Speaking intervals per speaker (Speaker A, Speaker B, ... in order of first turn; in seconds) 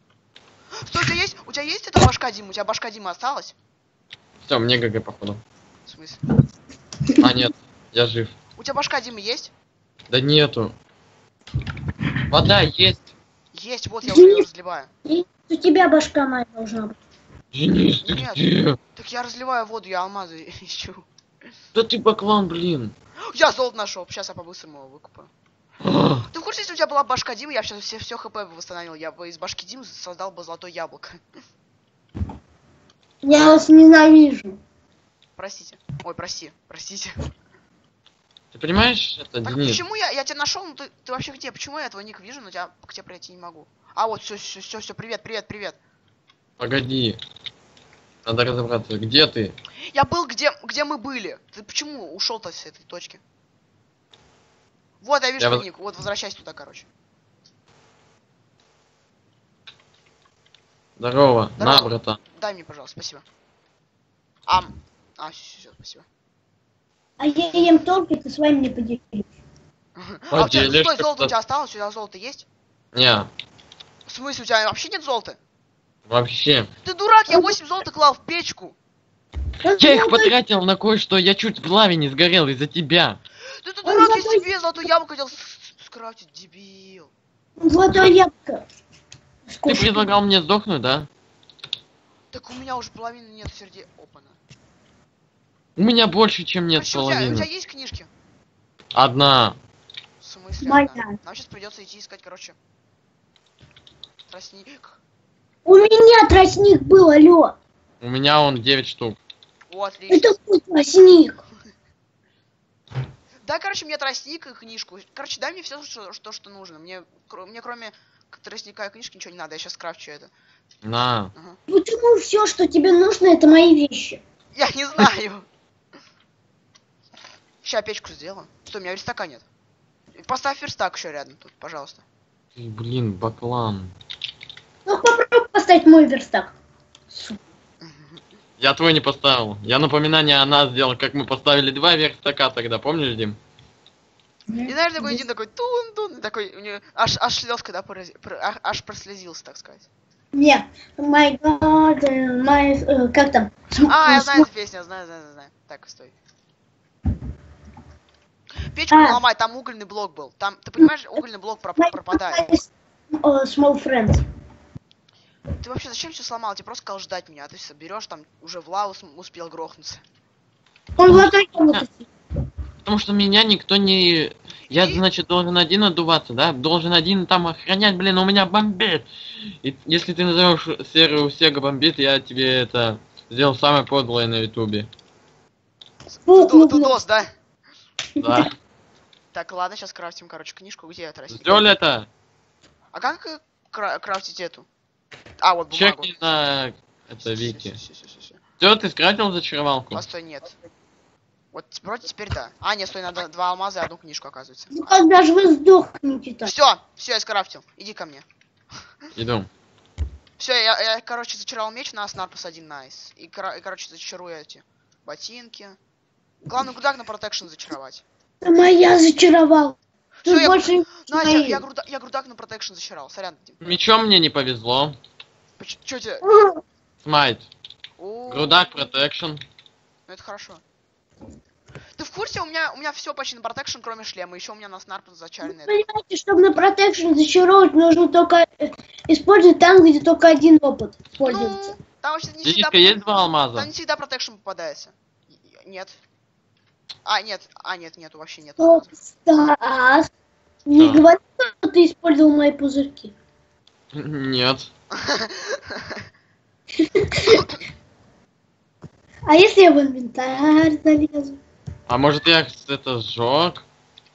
Speaker A: 0.8-3.5, 5.8-6.2, 8.6-9.5, 13.5-14.9, 18.0-21.1, 23.3-25.3, 26.3-31.2, 33.3-33.6, 35.4-37.1, 39.4-45.8, 49.9-53.2, 55.0-56.9, 61.6-63.2, 64.5-66.0, 70.0-72.5, 74.1-75.4, 76.8-78.8, 83.6-87.1, 92.3-94.4, 96.7-98.1, 100.2-102.6, 104.3-105.0, 109.7-110.3, 113.4-120.3, 124.5-125.5, 127.6-129.4, 130.1-132.0, 137.8-138.2, 144.7-149.9, 153.8-156.1, 158.7-162.5, 165.6-170.0, 174.7-175.0, 186.1-187.3, 189.3-191.7, 192.9-194.7, 195.4-196.1, 197.2-198.4, 199.9-200.6, 201.5-205.0, 206.4-208.2, 210.4-215.8, 216.4-218.0, 220.2-223.6, 225.6-226.2, 228.0-228.7, 230.1-230.6, 231.9-235.8, 241.2-246.0, 247.0-248.9, 254.9-255.6, 257.3-257.6
Speaker B: 4.4-5.4, 7.2-8.3, 10.1-10.7, 12.3-13.1, 17.5-18.8, 21.7-22.9, 25.8-26.2, 38.5-39.8, 46.6-47.2, 48.2-49.5, 55.4-55.6, 61.0-62.2, 70.3-71.3, 72.9-73.3, 76.1-76.7, 79.8-83.2, 89.7-91.1, 95.8-97.5, 98.9-99.6, 108.0-109.2, 120.8-121.3, 132.6-133.9, 138.6-143.4, 171.1-171.8, 172.8-179.1, 179.6-184.9, 188.2-188.5, 191.3-192.1, 195.7-197.8, 198.6-200.0, 209.2-209.5, 223.6-224.9, 227.0-227.5, 228.3-229.4, 242.4-243.7, 250.8-251.0, 253.9-254.7, 261.9-263.6
Speaker C: 14.0-14.4, 15.1-16.9, 33.2-34.6, 67.2-69.3, 79.6-80.3, 83.8-84.4, 87.6-88.6, 89.5-90.1, 100.6-101.2, 105.6-107.5, 110.1-111.4, 121.7-124.2, 134.8-136.5, 137.1-137.4, 144.5-145.2, 150.3-154.4, 158.9-159.2, 161.8-164.2, 171.0-172.1, 186.3-187.0, 188.2-188.5, 204.7-206.5, 218.4-221.6, 226.2-226.6, 235.4-241.7, 248.6-250.1, 250.7-253.1, 256.9-257.4, 259.3-261.4